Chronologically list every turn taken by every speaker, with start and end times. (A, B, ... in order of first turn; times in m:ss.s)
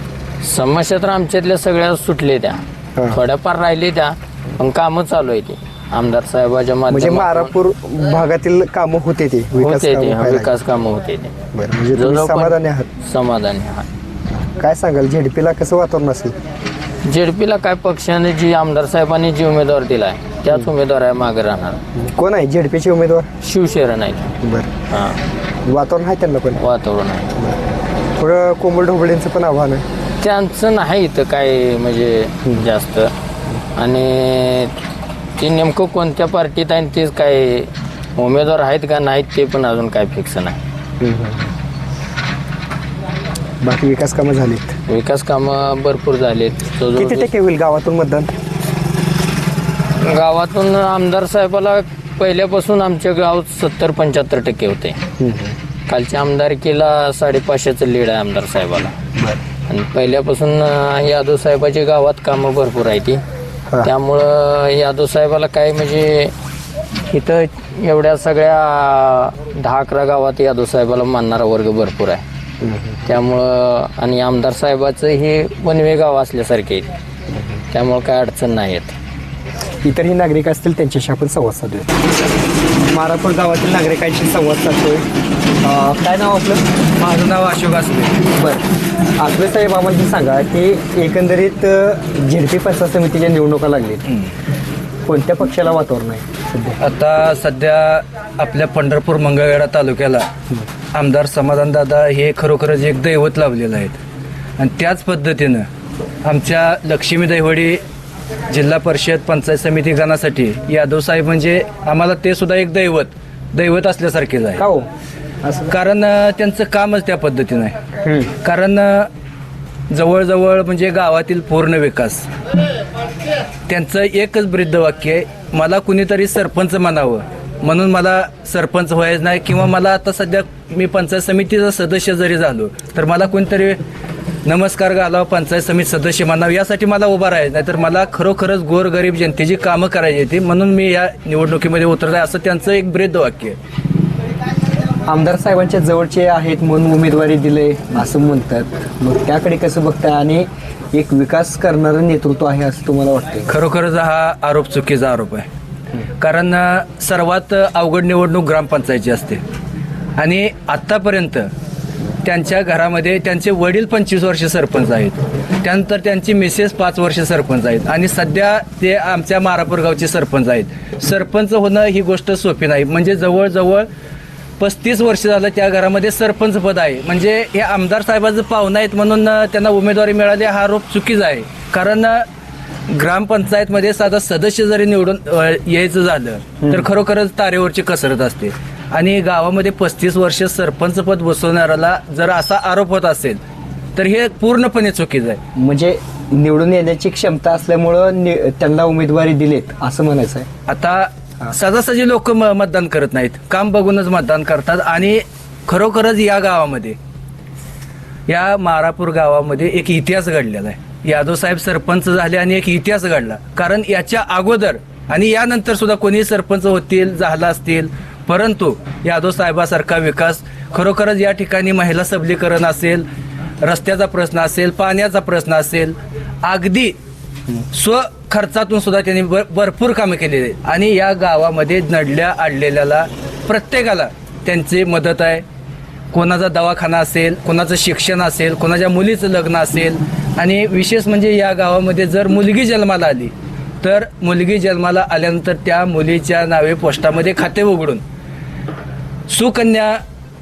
0:00.4-0:02.6 A
0:03.0-0:03.2 B
0:03.1-0:07.5 A
0:06.9-0:10.5 B
0:09.6-0:11.3 A
0:11.5-0:12.9 B
0:11.9-0:13.9 A
0:14.4-0:16.4 B
0:17.0-0:21.8 A
0:22.0-0:23.3 B
0:23.4-0:24.3 A
0:24.4-0:24.7 B
0:24.9-0:25.2 A
0:25.7-0:26.6 B
0:26.6-0:27.3 A
0:27.4-0:27.7 B
0:28.2-0:29.8 B
0:30.2-0:33.1 A
0:33.8-0:34.7 A
0:35.4-0:40.6 A
0:41.0-0:41.5 B
0:43.6-0:44.8 B
0:44.9-0:47.3 A
0:47.0-0:48.3 B
0:50.0-0:55.0 A
0:55.2-0:55.6 B
0:55.9-0:58.9 A
0:59.7-1:03.2 A
1:03.8-1:06.3 A
1:07.1-1:12.2 A
1:12.6-1:13.1 B
1:13.1-1:16.9 A
1:17.3-1:17.6 B
1:17.7-1:18.9 A
1:19.8-1:21.9 B
1:22.9-1:25.1 B
1:25.6-1:26.6 B
1:27.0-1:28.2 C
1:28.3-1:28.6 B
1:29.2-1:34.1 B
1:35.0-1:36.8 B
1:36.8-1:40.3 C
1:40.9-1:44.0 C
1:44.6-1:45.7 C
1:46.2-1:47.8 C
1:48.5-1:54.6 C
1:54.6-1:54.9 B
1:55.4-1:55.8 B
1:55.7-1:57.8 C
1:58.0-1:58.4 B
1:58.4-1:59.1 C
1:59.9-2:02.3 C
2:03.7-2:13.8 C
2:14.4-2:23.6 C
2:25.0-2:33.5 B
2:33.5-2:35.5 C
2:36.2-2:39.4 C
2:40.2-2:41.5 C
2:42.2-2:53.9 C
2:54.6-3:02.3 C
3:02.9-3:13.4 C
3:06.6-3:06.9 B
3:14.0-3:15.4 C
3:15.6-3:20.5 B
3:20.7-3:27.0 C
3:28.3-3:43.1 C
3:43.6-3:47.0 C
3:47.7-3:55.4 C
3:56.1-4:08.0 C
4:09.3-4:10.0 C